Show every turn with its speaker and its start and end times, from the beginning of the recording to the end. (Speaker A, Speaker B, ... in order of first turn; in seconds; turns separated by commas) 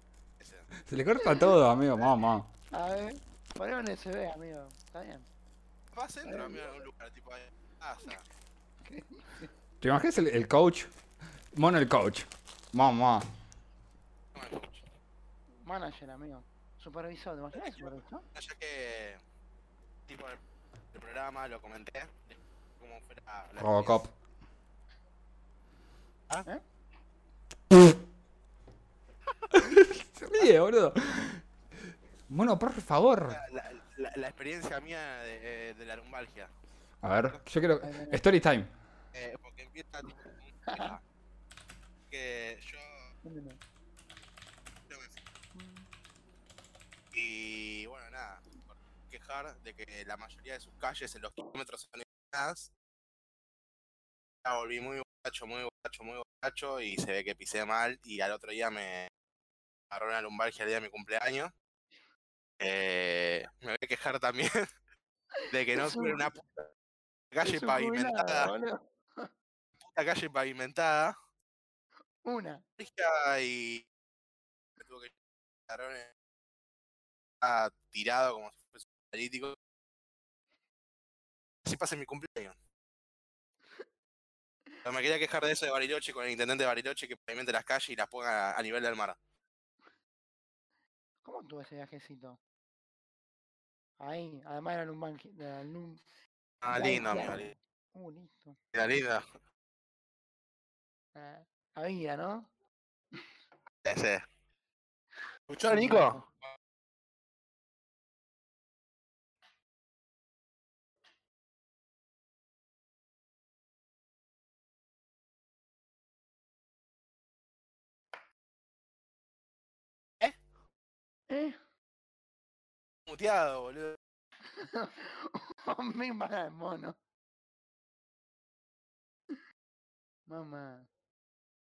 Speaker A: 0.4-0.7, Speaker B: 0.8-2.5, Speaker C: 1.2-1.5, Speaker C: 2.7-5.3, Speaker A: 5.9-8.2, Speaker C: 6.2-6.6, Speaker C: 8.8-9.5, Speaker B: 9.8-10.9, Speaker B: 11.5-13.3, Speaker A: 14.3-14.8, Speaker C: 15.6-18.2, Speaker A: 17.7-19.2, Speaker A: 20.1-20.4, Speaker A: 20.9-24.0, Speaker B: 23.6-24.1, Speaker B: 29.5-31.4, Speaker B: 32.3-33.4, Speaker A: 33.3-36.5, Speaker B: 37.0-38.7, Speaker C: 37.8-38.2, Speaker A: 39.1-41.0, Speaker C: 40.7-40.9, Speaker A: 42.1-43.1, Speaker C: 43.2-43.6, Speaker A: 44.9-45.2, Speaker C: 45.5-45.9, Speaker A: 47.1-52.7, Speaker A: 54.4-59.1, Speaker A: 59.9-61.5, Speaker A: 62.6-64.6, Speaker C: 65.4-66.2, Speaker A: 65.5-66.6, Speaker A: 67.3-68.5, Speaker C: 67.4-69.3, Speaker A: 69.9-71.1, Speaker C: 72.2-72.6, Speaker A: 72.8-73.8, Speaker A: 74.8-75.1, Speaker A: 75.7-76.1, Speaker A: 77.4-79.5, Speaker A: 81.6-82.5, Speaker A: 84.8-89.2, Speaker C: 91.2-92.4, Speaker C: 94.0-96.0, Speaker A: 96.6-97.5, Speaker C: 96.7-98.6, Speaker A: 98.7-99.2, Speaker C: 101.1-102.5, Speaker A: 103.8-104.2, Speaker A: 105.5-106.2, Speaker C: 105.7-106.2, Speaker C: 121.3-121.6, Speaker A: 123.1-124.0, Speaker C: 124.5-127.0, Speaker C: 130.3-130.9